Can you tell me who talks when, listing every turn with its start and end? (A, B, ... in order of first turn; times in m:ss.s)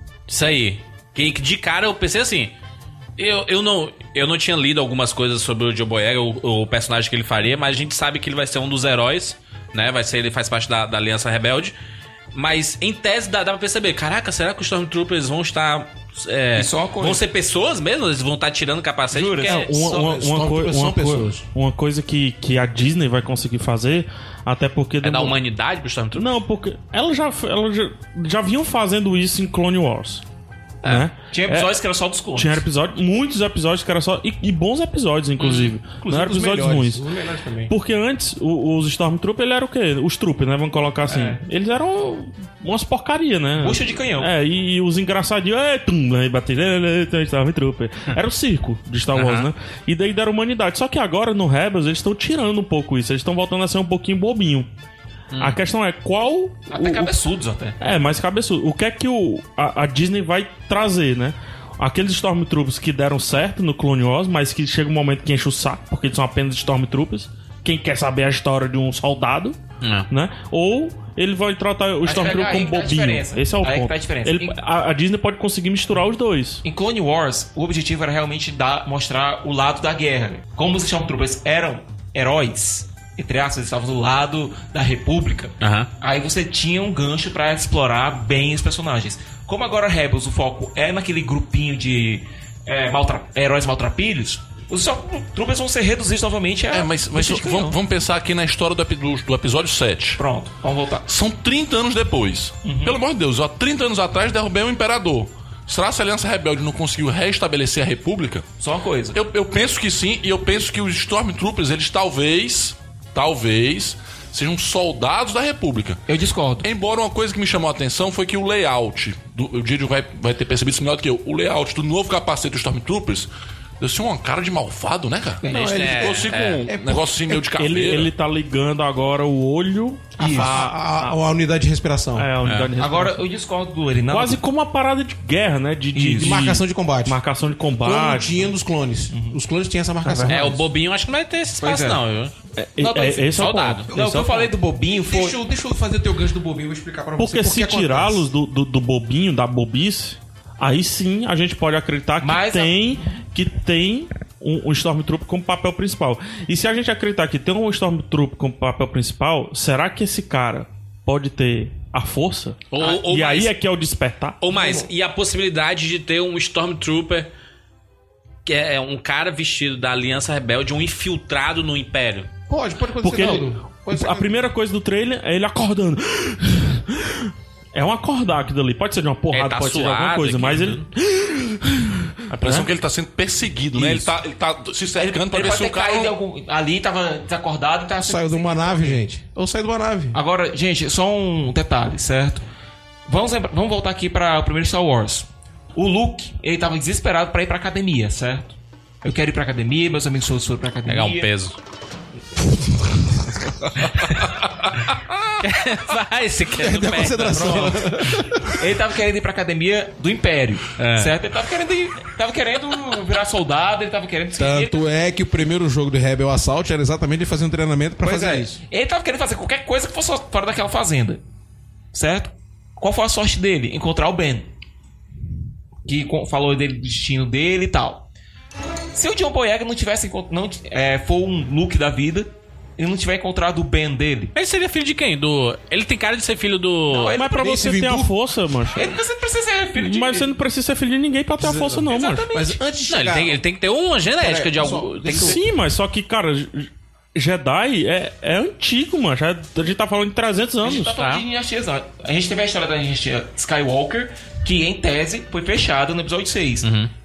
0:00.3-0:02.5 A
0:03.2-0:11.7 A
0:12.3-0:19.7 A
0:16.5-0:17.2 B
0:19.1-0:20.0 B
0:19.4-0:25.4 C
0:19.7-0:21.4 D
0:25.0-0:26.3 A
0:26.1-0:30.2 C
0:30.8-0:31.7 C
0:31.3-0:32.6 B
0:32.4-0:37.0 C
0:35.4-0:35.7 A
0:36.0-0:37.7 D
0:37.7-0:54.7 C
0:41.1-0:41.4 B
0:43.6-0:44.3 B
0:49.1-0:49.5 A
0:55.4-0:57.1 C
0:56.7-0:57.8 B
0:57.8-1:09.6 C
1:09.8-1:10.1 A
1:10.1-1:16.6 C
1:12.0-1:14.6 B
1:16.6-1:37.8 B
1:25.6-1:25.9 A
1:36.7-1:40.2 E
1:40.2-1:41.1 B
1:41.1-1:48.5 E
1:42.6-1:43.0 B
1:48.6-1:49.2 B
1:49.1-1:56.0 E
1:56.1-1:56.7 B
1:56.6-2:08.1 E
2:05.4-2:05.9 B
2:05.4-2:07.4 D
2:05.5-2:06.7 A
2:07.6-2:11.1 C
2:10.2-2:12.3 D
2:10.2-2:10.6 B
2:12.2-2:13.2 C
2:12.4-2:12.7 A
2:12.8-2:14.4 B
2:14.1-2:18.5 C
2:15.9-2:16.4 B
2:16.2-2:17.2 D
2:17.8-2:20.6 D
2:19.1-2:19.4 B
2:20.0-2:20.4 C
2:20.3-2:22.3 A
2:21.6-2:22.0 B
2:22.6-2:24.5 C
2:22.8-2:25.4 B
2:23.3-2:23.8 A
2:24.9-2:28.3 D
2:27.2-2:44.4 C
2:32.2-2:33.0 B
2:42.7-2:43.5 A
2:44.4-2:47.3 A
2:44.5-2:44.9 D
2:48.4-2:52.3 A
2:52.5-2:54.3 D
2:53.0-3:02.7 C
2:59.3-3:00.8 A
3:02.3-3:06.2 E
3:03.8-3:04.0 A
3:05.0-3:09.0 B
3:08.0-3:10.2 D
3:10.1-3:12.4 B
3:13.0-3:21.3 B
3:20.9-3:21.6 A
3:25.4-3:27.8 A
3:26.5-3:28.6 D
3:27.3-3:27.7 B
3:28.5-3:34.8 B
3:30.8-3:31.1 A
3:34.4-3:38.6 D
3:38.0-3:41.2 B
3:41.9-3:44.5 B
3:45.8-3:48.0 B
3:48.9-3:54.3 B
3:54.3-3:57.1 A
3:56.9-3:57.6 B
3:57.1-3:58.8 C
3:57.3-3:58.2 D
3:58.7-4:00.3 B
3:59.8-4:02.3 C
4:01.4-4:03.4 D
4:01.9-4:02.6 B
4:02.9-4:05.4 A
4:04.2-4:05.4 D
4:05.1-4:10.9 C
4:10.6-4:16.7 B
4:11.0-4:11.2 A
4:16.6-4:16.9 A